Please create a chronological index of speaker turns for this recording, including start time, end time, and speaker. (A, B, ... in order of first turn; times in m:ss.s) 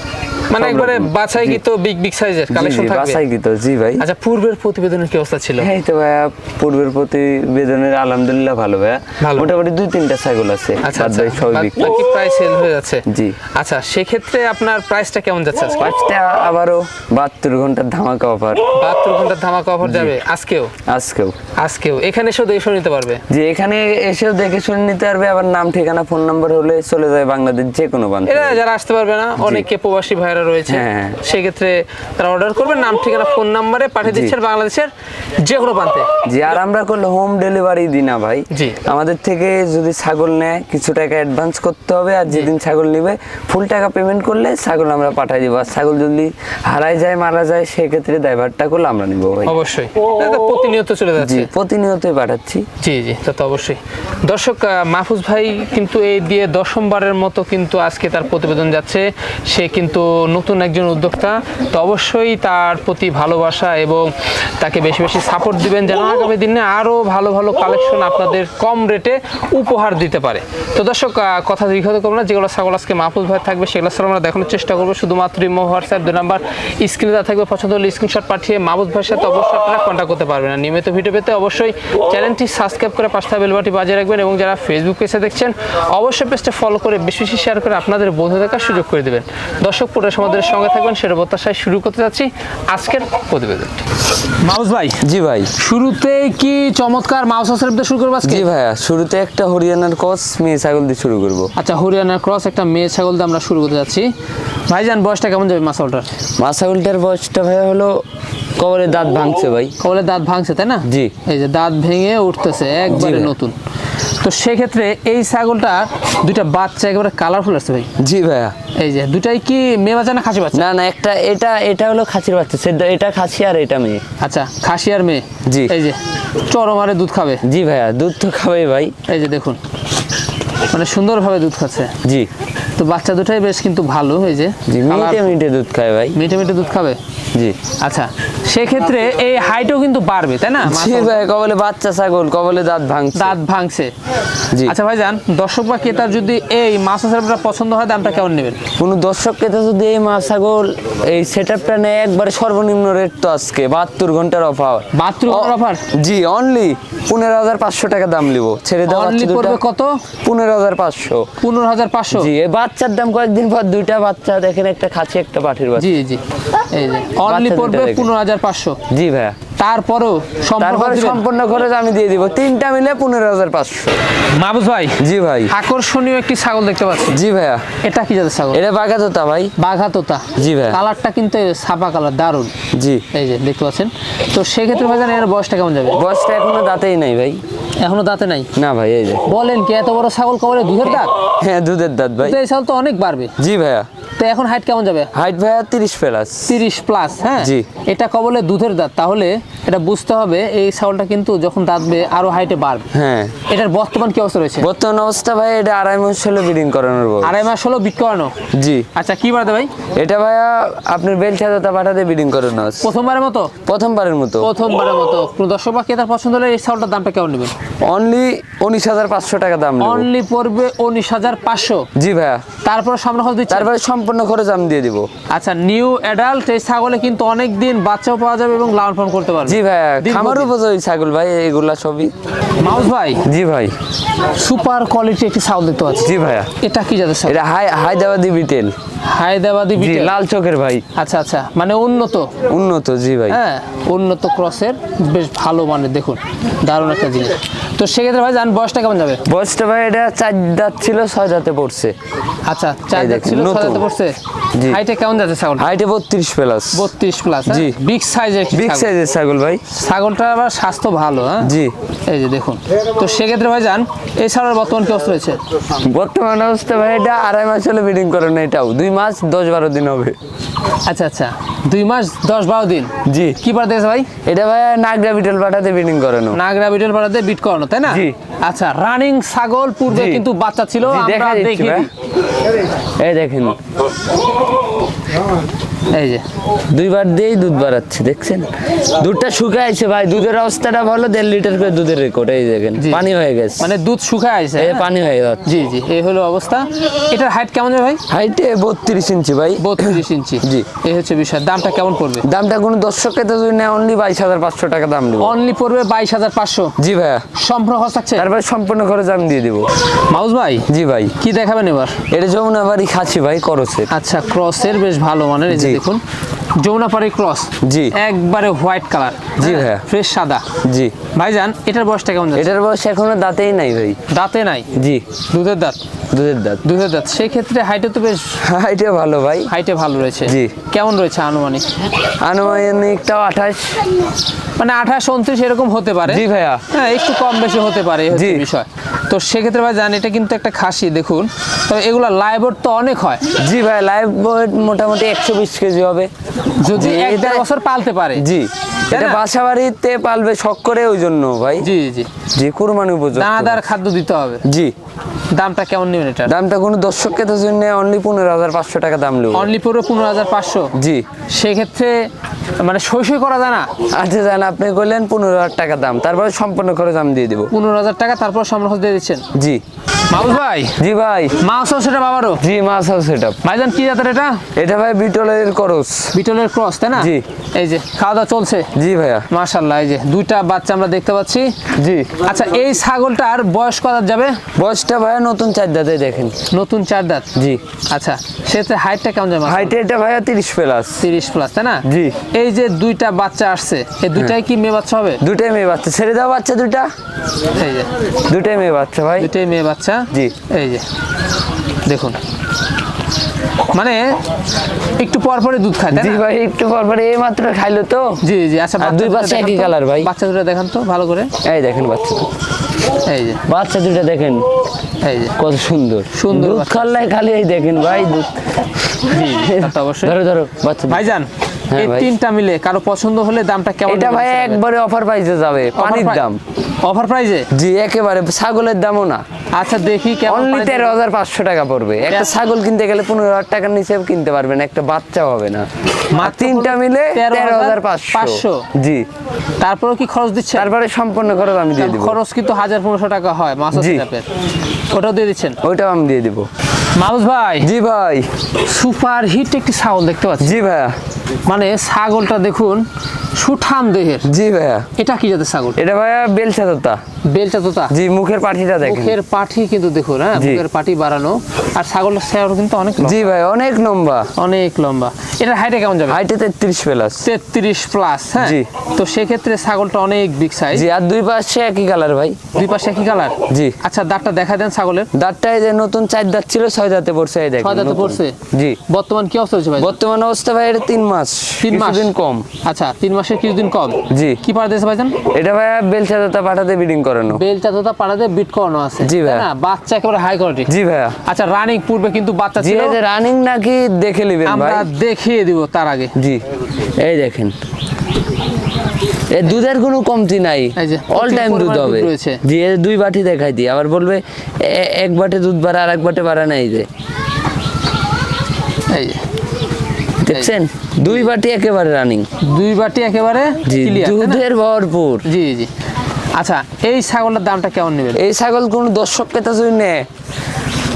0:00.5-0:03.2 A
0:00.6-0:01.6 B
0:02.5-0:04.0 B
0:04.0-0:05.7 A
0:05.6-0:11.9 B
0:09.2-0:09.5 A
0:10.8-0:15.9 A
0:13.0-0:13.4 B
0:15.8-0:18.7 B
0:18.8-0:20.7 A
0:19.8-0:20.1 B
0:20.9-0:21.4 B
0:21.6-0:23.2 A
0:23.3-0:28.6 B
0:28.2-0:36.1 A
0:29.4-0:29.6 B
0:30.7-0:31.2 B
0:34.0-0:34.3 B
0:36.2-0:49.6 B
0:38.5-0:38.8 A
0:49.4-0:51.5 A
0:51.2-0:52.6 B
0:52.8-1:35.0 A
1:35.0-1:35.5 B
1:35.6-1:38.5 A
1:38.2-1:41.5 B
1:41.6-1:44.1 A
1:44.7-1:46.1 A
1:46.4-1:48.0 B
1:48.6-1:49.7 B
1:49.8-1:53.5 A
1:50.8-1:51.1 B
1:52.8-1:53.3 B
1:54.2-1:57.9 A
1:58.0-1:58.5 B
1:58.8-2:00.6 A
2:00.5-2:04.0 B
2:04.2-2:07.4 A
2:05.4-2:05.8 B
2:07.4-2:08.9 B
2:09.1-2:09.6 A
2:10.7-2:11.9 A
2:12.0-2:12.3 B
2:12.8-2:15.3 A
2:14.7-2:16.2 B
2:16.1-2:17.0 A
2:17.8-2:21.2 A
2:20.6-2:23.4 B
2:23.2-2:23.9 A
2:24.6-2:28.7 A
2:28.8-2:39.6 B
2:34.9-2:35.8 A
2:38.8-2:40.0 A
2:40.2-2:41.3 B
2:41.4-2:42.3 A
2:42.1-2:45.9 B
2:45.8-2:48.8 A
2:47.2-2:48.1 B
2:48.9-2:49.4 B
2:49.6-2:51.2 A
2:50.6-2:53.9 B
2:54.4-2:57.2 A
2:55.0-2:55.5 B
2:57.1-2:57.6 B
2:57.8-2:58.6 A
2:58.5-2:59.5 B
2:59.6-3:02.5 A
3:00.4-3:00.8 B
3:02.7-3:03.0 B
3:03.1-3:06.0 A
3:05.9-3:07.4 B
3:07.8-3:08.5 A
3:08.5-3:09.2 B
3:09.2-3:11.1 A
3:11.4-3:12.4 B
3:12.2-3:13.3 A
3:13.4-3:13.9 B
3:14.2-3:15.1 A
3:15.1-3:16.5 B
3:16.5-3:22.9 A
3:17.4-3:17.6 B
3:22.9-3:23.4 B
3:23.4-3:24.7 A
3:24.6-3:27.4 B
3:27.2-3:28.3 A
3:28.5-3:28.9 B
3:28.9-3:29.7 A
3:30.0-3:32.9 B
3:32.8-3:33.5 A
3:33.6-3:34.5 B
3:34.4-3:37.5 A
3:37.8-3:40.1 B
3:39.8-3:41.9 A
3:41.9-3:42.4 B
3:42.6-3:43.7 A
3:43.5-3:45.1 B
3:45.3-3:50.5 A
3:49.4-3:52.1 B
3:52.6-3:53.2 A
3:53.2-3:53.7 B
3:54.3-3:57.4 A
3:56.0-3:56.5 B
3:57.2-3:58.7 B
3:59.1-4:00.1 A
3:59.8-4:00.8 B
4:00.9-4:02.3 A
4:02.5-4:03.4 B
4:03.3-4:09.2 A
4:09.2-4:11.9 B
4:12.5-4:15.7 A
4:12.9-4:13.8 B
4:14.5-4:14.8 B
4:15.6-4:16.9 B
4:16.7-4:18.9 A
4:17.5-4:17.8 B
4:18.5-4:19.6 B
4:19.7-4:21.5 A
4:21.4-4:21.7 B
4:22.1-4:25.4 A
4:25.8-4:30.2 B
4:30.9-4:34.1 A
4:33.0-4:33.4 B
4:34.2-4:36.4 B
4:36.3-4:41.9 A
4:37.9-4:38.1 B
4:39.9-4:40.3 B
4:40.9-4:41.9 B
4:43.0-4:43.6 B
4:45.9-4:46.2 A
4:46.7-4:53.7 B
4:52.8-4:53.0 A
4:53.6-4:54.9 A
4:54.6-4:55.4 B
4:55.4-4:58.0 A
4:58.1-5:00.7 B
4:59.6-5:02.2 A
5:02.2-5:05.4 B
5:05.2-5:06.7 A
5:06.8-5:07.3 B
5:07.3-5:08.3 A
5:08.2-5:09.7 B
5:10.1-5:10.7 A
5:10.7-5:11.1 B
5:11.2-5:12.0 A
5:12.1-5:13.9 B
5:13.9-5:16.0 A
5:15.5-5:15.8 B
5:16.6-5:20.4 A
5:17.6-5:17.9 B
5:19.4-5:19.8 B
5:20.6-5:20.9 B
5:21.1-5:22.5 A
5:22.4-5:24.0 B
5:24.1-5:24.7 A
5:24.7-5:25.0 B
5:25.3-5:25.8 A
5:26.1-5:26.6 B
5:26.6-5:28.4 A
5:28.4-5:29.5 B
5:29.5-5:31.6 A
5:30.2-5:30.5 B
5:32.2-5:33.9 B
5:34.6-5:43.2 A
5:36.1-5:36.6 B
5:38.1-5:38.4 B
5:43.4-5:46.1 B
5:46.6-5:48.2 A
5:46.6-5:47.4 B
5:48.1-5:51.7 B
5:48.9-5:49.2 A
5:51.6-5:52.1 A
5:52.3-5:53.6 B
5:53.1-5:54.4 A
5:54.4-5:54.7 B
5:55.3-5:56.3 A
5:56.2-5:59.5 B
5:59.3-6:00.7 A
6:00.7-6:01.0 B
6:01.3-6:02.1 A
6:02.6-6:03.7 A
6:03.9-6:07.5 B
6:07.5-6:09.2 A
6:09.3-6:09.6 B
6:10.1-6:10.8 A
6:10.8-6:11.4 B
6:11.4-6:12.4 A
6:12.4-6:13.4 B
6:13.4-6:14.4 A
6:14.5-6:16.1 B
6:16.1-6:18.7 A
6:16.9-6:17.2 B
6:18.7-6:19.3 B
6:19.3-6:21.6 A
6:21.7-6:22.2 B
6:22.2-6:24.4 A
6:24.6-6:26.4 B
6:26.5-6:27.3 A
6:27.3-6:27.6 B
6:27.9-6:29.7 A
6:29.4-6:31.0 B
6:31.0-6:35.2 A
6:31.8-6:32.2 B
6:35.2-6:36.9 B
6:37.6-6:37.9 A
6:38.2-6:39.3 B
6:39.2-6:40.8 A
6:41.8-6:42.2 A
6:43.7-6:44.2 A
6:45.0-6:46.2 A
6:45.9-6:48.2 B
6:48.2-6:51.3 A
6:48.8-6:50.1 B
6:51.4-6:52.3 B
6:53.0-6:53.4 A
6:53.4-6:54.4 B
6:55.0-6:55.4 A
6:55.3-7:01.1 B
6:56.1-6:56.9 A
6:59.1-7:00.2 A
7:00.9-7:04.6 A
7:01.7-7:02.1 B
7:03.9-7:06.4 B
7:05.7-7:06.2 A
7:06.8-7:07.5 A
7:07.5-7:09.2 B
7:09.5-7:10.9 A
7:10.2-7:15.7 B
7:16.1-7:18.7 A
7:16.2-7:19.1 B
7:19.6-7:20.7 A
7:20.5-7:22.2 B
7:21.8-7:24.3 A
7:23.7-7:24.1 B
7:24.9-7:25.6 A
7:25.6-7:26.5 B
7:27.0-7:27.7 A
7:27.6-7:28.3 B
7:28.6-7:30.6 A
7:30.4-7:31.0 B
7:31.4-7:32.8 A
7:33.4-7:34.3 A
7:34.2-7:34.9 B
7:35.0-7:35.8 A
7:35.8-7:37.0 B
7:37.3-7:37.9 A
7:37.9-7:39.2 B
7:38.8-7:43.2 A
7:40.4-7:40.6 B
7:43.0-7:44.3 B
7:44.4-7:46.2 A
7:46.1-7:47.2 B
7:47.2-7:50.9 A
7:48.4-7:48.7 B
7:50.7-7:52.4 B
7:52.5-7:55.1 A
7:53.5-7:53.8 B
7:55.1-7:58.8 B
7:57.6-7:59.9 A
7:59.8-8:02.4 B
8:01.6-8:02.1 A
8:02.6-8:05.2 A
8:04.1-8:04.4 B
8:05.3-8:07.4 B
8:07.3-8:10.7 A
8:09.0-8:09.5 B
8:10.7-8:11.2 B
8:11.2-8:13.0 A
8:12.6-8:14.9 B
8:14.4-8:16.1 A
8:16.1-8:17.5 B
8:19.3-8:26.9 B
8:20.8-8:22.4 A
8:28.9-8:29.2 A
8:30.2-8:32.3 B
8:32.4-8:34.4 A
8:33.6-8:35.2 B
8:35.2-8:35.7 A
8:36.4-8:38.2 A
8:38.1-8:40.1 B